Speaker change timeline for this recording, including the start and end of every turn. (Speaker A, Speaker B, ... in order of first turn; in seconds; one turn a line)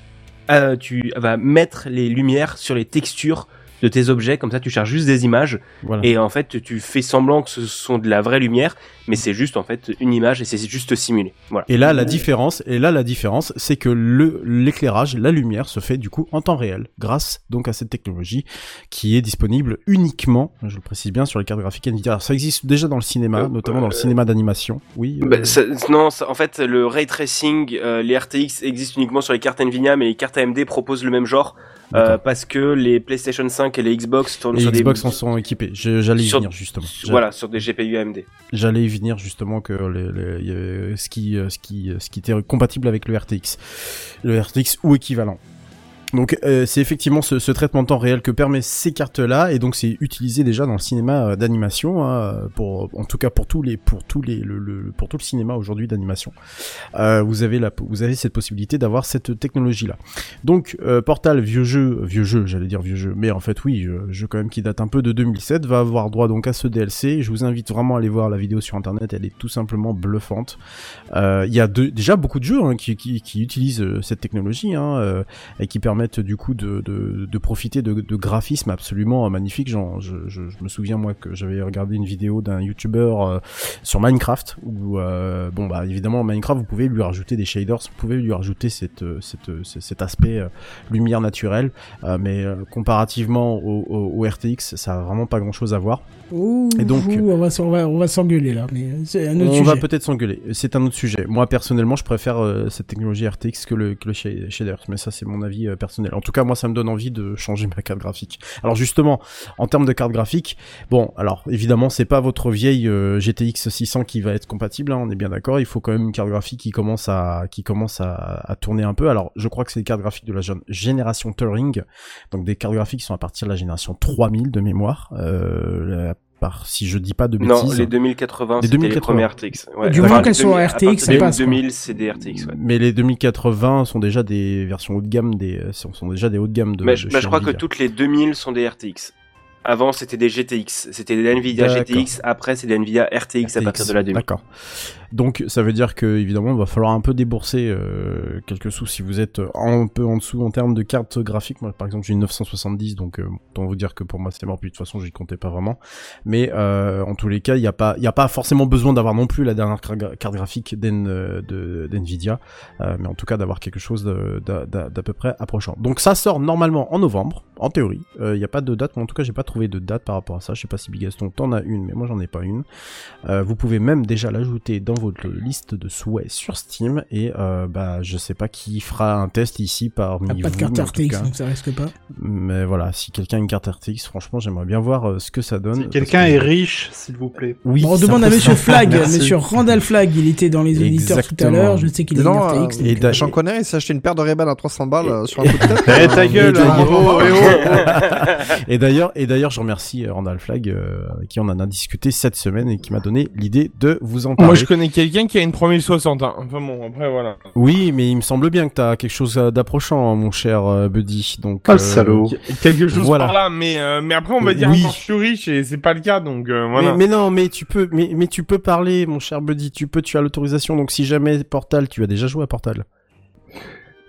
Speaker A: 0.5-12.2
Speaker B: 5.8-6.1
Speaker B: 11.7-25.6
Speaker A: 23.4-24.1
Speaker A: 25.2-35.2
Speaker B: 34.5-37.2
Speaker A: 36.2-38.3
Speaker B: 38.5-45.4
Speaker B: 46.1-56.4
Speaker B: 57.0-70.6
Speaker B: 71.1-96.0
Speaker C: 96.3-99.8
Speaker B: 96.8-97.2
Speaker B: 99.4-127.9
Speaker A: 127.4-132.6
Speaker B: 128.6-129.3
Speaker C: 129.8-131.4
Speaker B: 129.9-130.3
Speaker B: 131.1-131.6
Speaker B: 132.3-137.6
Speaker A: 136.8-139.1
Speaker A: 139.7-144.2
Speaker B: 141.5-142.1
Speaker B: 143.4-144.4
Speaker B: 145.1-172.7
Speaker B: 173.3-181.3
Speaker C: 180.3-181.9
Speaker B: 182.1-186.5
Speaker D: 185.8-187.6
Speaker B: 187.6-189.4
Speaker C: 187.8-193.3
Speaker D: 188.5-189.0
Speaker B: 190.7-191.9
Speaker E: 192.1-197.6
Speaker B: 192.8-193.3
Speaker B: 195.0-204.7
Speaker D: 195.9-197.7
Speaker A: 197.4-198.3
Speaker F: 204.4-207.4
Speaker B: 207.6-213.4
Speaker D: 211.7-212.3
Speaker F: 212.5-217.0
Speaker B: 214.4-215.0
Speaker B: 216.8-222.8